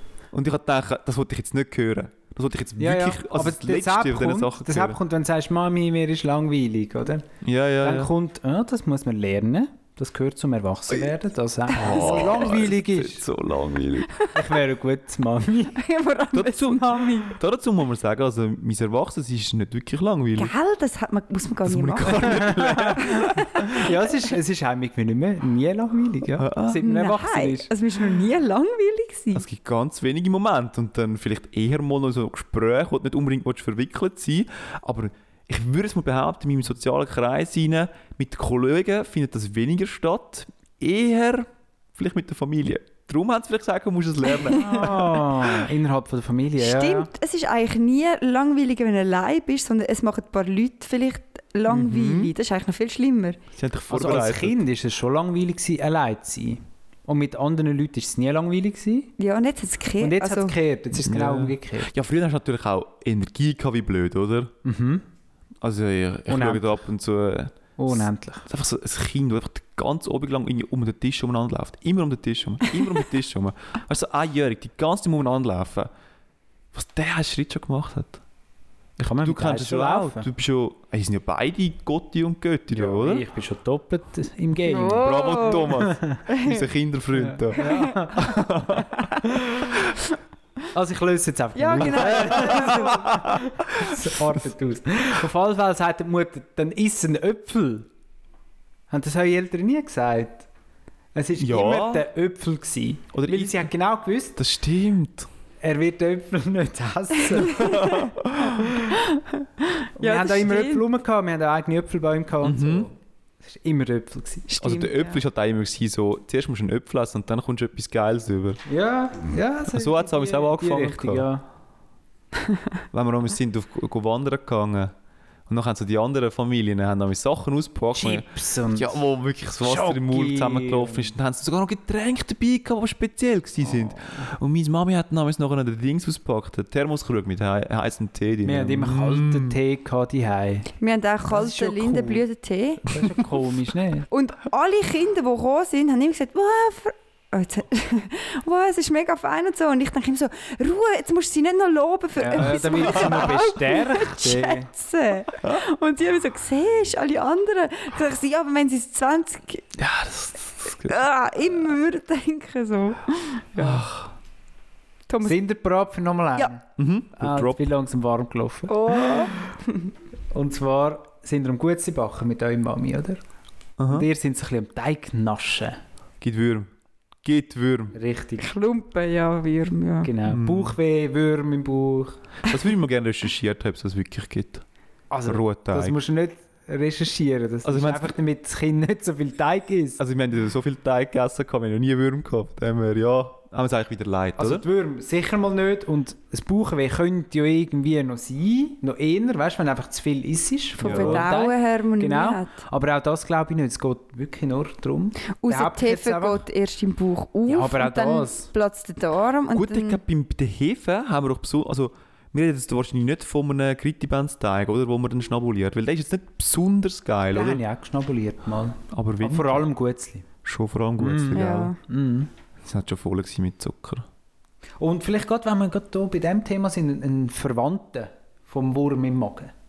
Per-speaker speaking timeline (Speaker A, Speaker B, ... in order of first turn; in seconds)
Speaker A: 0.3-5.0, 7.4-8.1, 11.7-14.1, 16.3-20.5, 21.6-23.4, 26.4-26.8, 29.3-45.6, 51.7-52.3, 53.5-54.6, 60.9-64.5, 65.6-75.9, 76.7-78.2, 79.0-83.3, 85.0-89.1, 92.2-94.0, 101.4-102.1, 103.1-103.7, 104.4-105.3, 107.6-108.6, 112.4-112.9, 114.6-118.6, 119.7-121.3, 122.9-124.9, 125.5-139.6, 159.8-160.9, 163.6-164.1, 166.8-167.6, 173.8-174.1, 176.2-176.7, 177.2-178.0, 180.3-180.8, 182.4-184.6, 185.3-186.0, 187.7-188.2, 190.0-194.7, 200.8-201.3, 209.5-217.6, 218.9-219.7, 220.4-221.7, 222.6-224.1
Speaker B: 2.8-7.3, 7.8-13.2, 14.3-15.8, 22.3-23.0, 23.6-27.7, 44.4-47.1, 53.9-59.1, 60.0-61.9, 64.6-65.0, 66.3-66.8, 67.8-68.5, 79.0-80.3, 82.7-86.2, 87.2-88.2, 90.7-93.2, 93.7-97.9, 98.9-100.5, 101.2-104.4, 105.6-107.8, 110.0-114.5, 118.7-121.4, 127.9-129.0, 129.6-131.1, 133.7-134.2, 138.4-140.7, 141.3-142.2, 142.9-144.1, 152.2-154.7, 165.2-166.6, 167.2-169.3, 170.3-173.2, 173.9-175.8, 177.9-178.5, 180.0-182.2, 185.1-190.0, 194.4-206.4, 207.5-208.5, 217.3-220.3, 221.0-222.3, 224.8-229.5
Speaker C: 11.9-12.2, 15.8-17.4, 20.4-23.9, 26.8-29.4, 46.6-53.4, 59.2-60.6, 84.6-86.6, 87.6-88.2, 91.5-93.5, 107.5-108.1, 108.8-110.8, 114.5-115.2, 140.8-143.0, 144.1-159.7, 160.8-163.8, 165.1-165.4, 168.7-169.9, 178.4-180.1, 200.8-202.6, 205.4-210.0, 221.3-221.8